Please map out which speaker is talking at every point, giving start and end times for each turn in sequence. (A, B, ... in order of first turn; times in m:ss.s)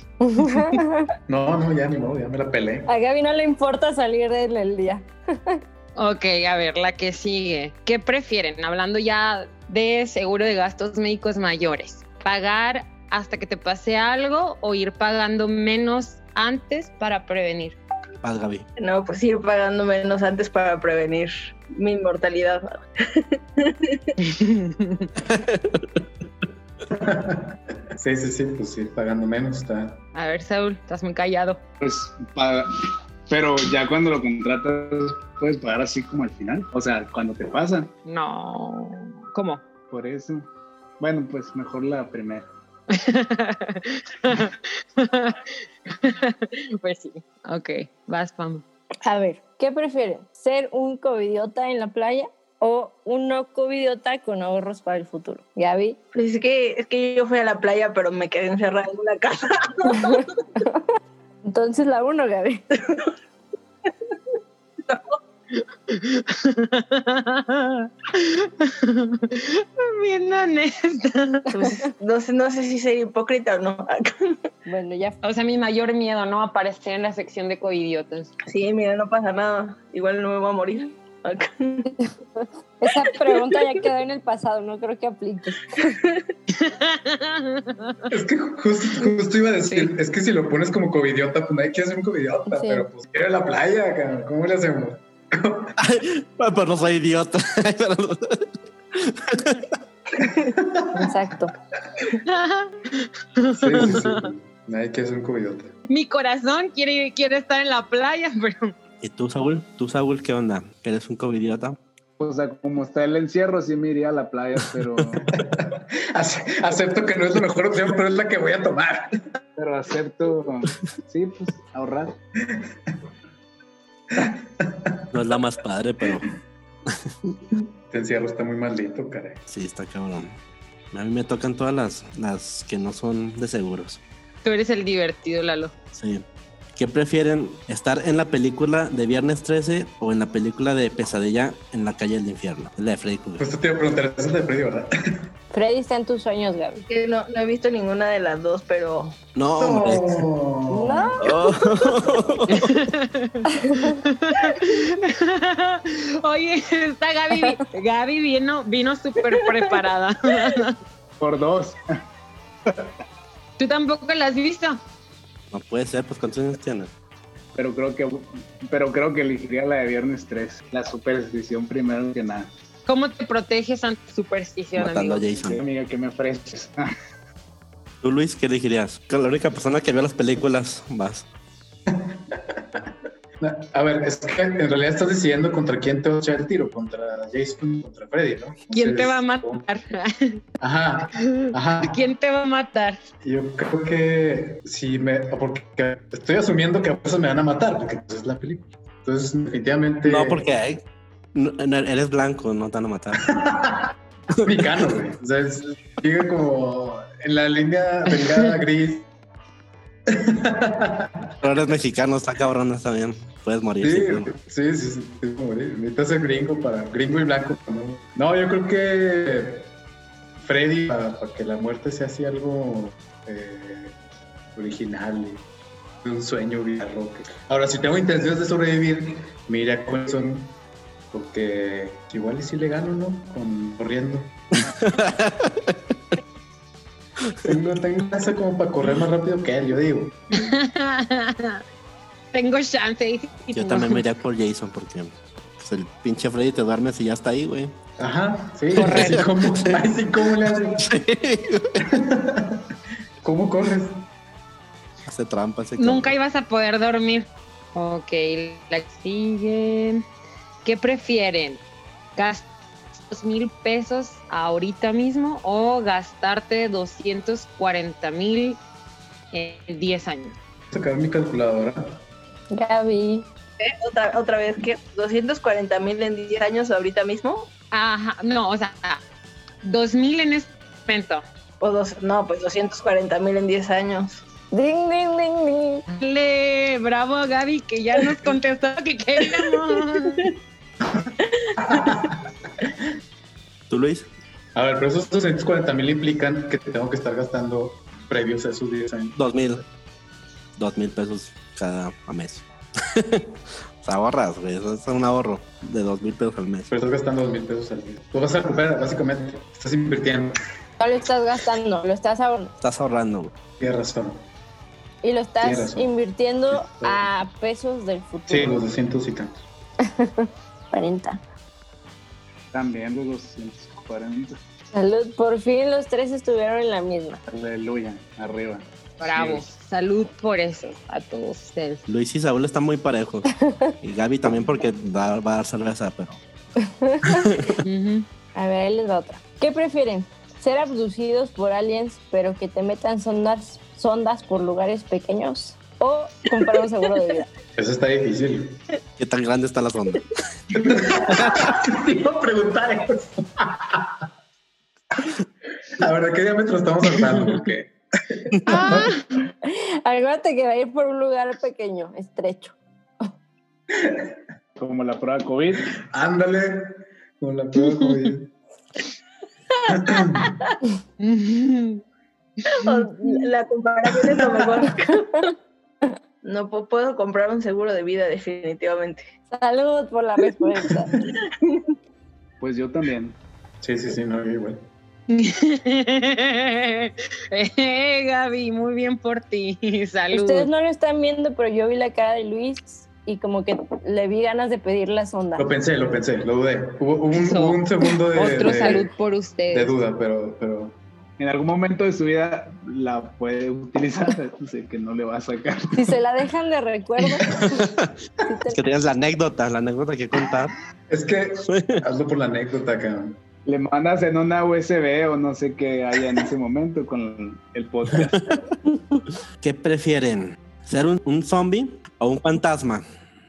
0:00.3-0:01.0 A
0:01.3-0:02.9 B
0:02.9-0:05.6 A
0:06.0-0:17.8 C
0:18.2-0:18.7 D
0:18.8-0:22.8 E
0:23.7-0:23.9 E
0:24.2-0:25.1 C
0:25.2-0:26.0 D
0:27.0-0:30.0 B
0:30.2-0:31.6 C
0:31.8-0:37.9 F
0:38.1-0:39.6 C
0:39.9-0:40.5 F
0:41.0-0:42.5 F
0:43.0-0:45.4 C
0:46.0-0:48.6 C
0:49.0-0:56.0 A
0:56.1-0:59.8 E
1:00.0-1:00.8 A
1:01.4-1:02.6 A
1:04.9-1:05.1 E
1:05.9-1:11.5 C
1:11.5-1:14.1 E
1:14.7-1:15.2 A
1:15.2-1:18.3 C
1:18.5-1:21.9 E
1:22.8-1:25.9 A
1:26.6-1:27.9 C
1:28.1-1:35.7 B
1:32.5-1:32.9 A
1:35.8-1:39.6 D
1:40.4-1:41.1 B
1:41.0-1:41.5 A
1:42.2-1:44.3 C
1:43.5-1:45.7 B
1:45.9-1:48.7 C
1:49.0-1:51.8 D
1:52.2-1:55.3 F
1:55.4-1:59.2 B
1:59.6-2:02.2 F
2:04.2-2:05.0 B
2:05.1-2:06.3 D
2:06.9-2:07.3 D
2:07.9-2:09.4 B
2:09.5-2:10.4 D
2:10.9-2:14.0 D
2:14.4-2:15.7 C
2:16.0-2:16.2 D
2:16.8-2:23.4 D
2:23.4-2:24.9 B
2:25.5-2:26.8 A
2:26.8-2:29.2 E
2:29.4-2:30.2 D
2:29.6-2:31.1 B
2:30.7-2:31.3 A
2:31.2-2:32.7 D
2:32.6-2:40.7 C
2:41.2-2:42.0 F
2:42.7-2:42.9 F
2:43.6-2:44.8 C
2:45.5-2:46.9 D
2:47.6-2:52.5 F
2:52.9-2:55.6 C
2:54.8-2:55.6 D
2:55.5-2:56.9 F
2:58.0-3:01.3 D
3:01.9-3:02.8 B
3:03.4-3:09.6 B
3:08.7-3:10.4 C
3:10.6-3:12.0 B
3:11.9-3:13.0 C
3:13.2-3:20.5 B
3:20.0-3:20.8 D
3:21.4-3:23.2 D
3:23.3-3:23.9 B
3:24.4-3:29.1 B
3:30.1-3:31.1 B
3:31.4-3:34.3 D
3:33.8-3:39.7 B
3:40.4-3:44.0 B
3:44.6-3:45.4 B
3:46.0-3:50.6 B
3:51.1-3:54.4 B
3:54.7-3:55.9 D
3:57.5-4:00.4 B
4:00.4-4:01.6 C
4:02.3-4:04.0 C
4:03.5-4:07.8 D
4:08.0-4:10.8 B
4:08.7-4:09.9 D
4:10.8-4:11.8 D
4:12.0-4:12.6 B
4:13.2-4:14.0 B
4:15.1-4:16.1 D
4:15.8-4:20.0 C
4:20.6-4:21.6 C
4:22.2-4:22.5 C
4:23.0-4:28.6 C
4:29.3-4:30.4 C
4:30.7-4:32.0 B
4:32.5-4:33.3 A
4:33.6-4:37.5 E
4:37.7-4:39.0 C
4:39.6-4:41.2 C
4:41.6-4:44.2 E
4:44.5-4:45.8 A
4:45.9-4:50.3 C
4:51.4-4:51.9 E
4:51.7-4:52.2 B
4:53.7-4:54.1 D
4:54.6-4:59.2 B
4:59.2-4:59.6 D
5:00.6-5:06.7 D
5:06.7-5:10.3 B
5:10.8-5:12.5 A
5:12.6-5:13.3 D
5:13.6-5:14.2 B
5:15.0-5:18.6 A
5:15.4-5:15.9 B
5:16.5-5:17.1 B
5:18.3-5:19.4 B
5:20.0-5:21.2 A
5:22.5-5:24.4 F
5:24.7-5:27.2 A
5:27.3-5:29.5 F
5:29.0-5:31.8 C
5:31.9-5:36.2 D
5:36.8-5:37.2 A
5:37.0-5:37.6 D
5:37.6-5:38.1 C
5:38.4-5:47.3 A
5:47.6-5:48.6 B
5:49.0-5:50.1 D
5:50.6-5:53.9 B
5:55.8-5:57.7 B
5:58.3-5:58.9 B
5:58.5-5:59.0 C
5:59.4-6:02.6 A
6:03.8-6:04.1 B
6:04.6-6:05.7 F
6:05.8-6:08.3 B
6:07.7-6:08.1 C
6:09.7-6:10.2 B
6:11.0-6:11.8 C
6:12.7-6:15.3 E
6:12.8-6:13.1 A
6:14.0-6:14.5 B
6:16.2-6:19.1 E
6:19.3-6:20.9 A
6:22.4-6:23.2 F
6:23.6-6:24.7 B
6:25.1-6:30.5 C
6:30.1-6:35.5 A
6:35.4-6:38.9 B
6:37.1-6:39.8 C
6:39.5-6:40.8 B
6:41.2-6:45.9 F
6:45.7-6:47.7 A
6:47.7-6:47.9 D
6:48.2-6:48.6 A
6:48.5-6:50.5 D
6:50.9-6:53.2 B
6:51.5-6:51.8 D
6:53.5-6:58.2 F
6:58.0-6:58.2 D
6:59.4-7:02.8 D